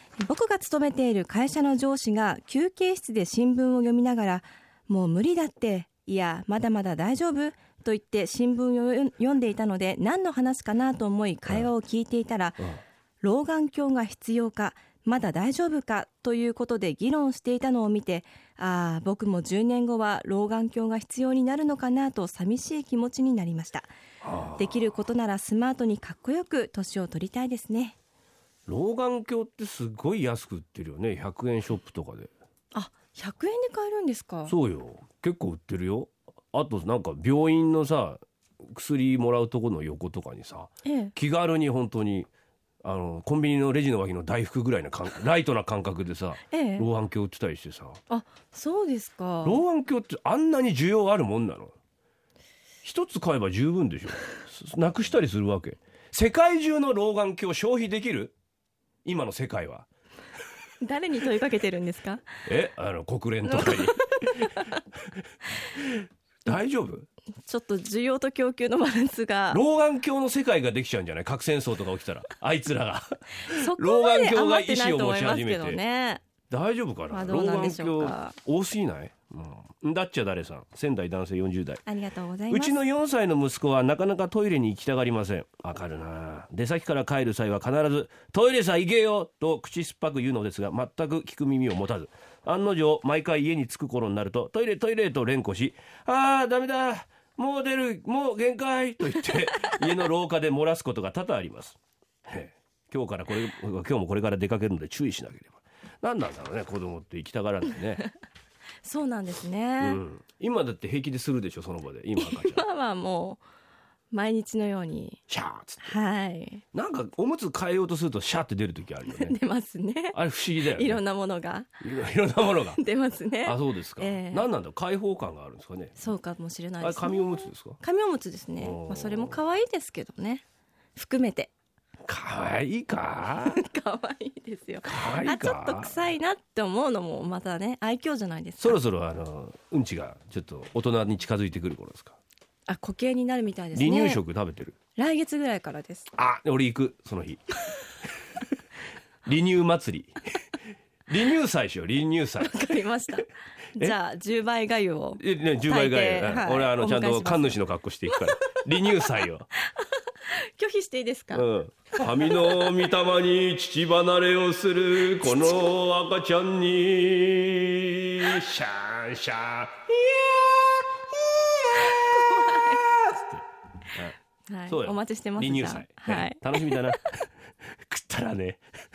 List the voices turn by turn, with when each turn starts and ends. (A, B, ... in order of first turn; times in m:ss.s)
0:00.2-0:12.7 A
0:13.2-0:23.9 A
0:24.2-0:24.8 B
0:24.6-0:28.0 A
0:28.7-0:32.3 B
0:32.7-0:34.5 A
0:34.5-0:42.3 B
0:40.8-0:41.1 A
0:42.8-0:48.0 B
0:46.5-0:46.9 A
0:48.1-0:49.6 A
0:49.4-0:51.7 B
0:52.8-0:58.3 B
0:59.0-0:59.9 B
1:00.8-1:02.2 A
1:02.5-1:04.7 B
1:03.4-1:04.8 A
1:05.8-1:07.1 B
1:07.4-1:09.6 A
1:09.5-1:15.8 B
1:13.5-1:16.2 A
1:16.5-1:21.8 B
1:17.1-1:18.4 A
1:21.8-1:22.7 A
1:22.5-1:48.0 B
1:48.8-1:50.0 A
1:49.8-1:52.6 B
1:52.2-1:53.4 A
1:54.1-1:55.2 A
1:55.3-1:56.0 B
1:55.8-1:56.6 A
1:56.7-1:59.4 B
1:59.1-2:01.7 A
2:00.1-2:01.0 B
2:01.8-2:02.8 B
2:02.8-2:04.5 A
2:03.4-2:06.0 B
2:06.0-2:10.4 A
2:06.8-2:07.8 B
2:08.6-2:09.4 B
2:11.0-2:11.5 A
2:12.0-2:13.6 B
2:13.3-2:18.8 A
2:14.8-2:16.0 B
2:18.6-2:22.2 B
2:22.7-2:24.2 A
2:23.7-2:24.8 B
2:25.0-2:26.1 A
2:26.2-2:27.6 B
2:29.2-2:30.1 B
2:31.1-2:32.5 B
2:32.4-2:38.6 A
2:35.2-2:39.5 B
2:39.6-2:42.7 A
2:41.3-2:49.7 B
2:45.2-2:45.8 A
2:50.0-2:50.5 A
2:51.8-2:52.8 A
2:52.9-2:54.2 B
2:54.5-2:57.0 A
2:54.7-2:57.1 B
2:57.9-2:58.6 B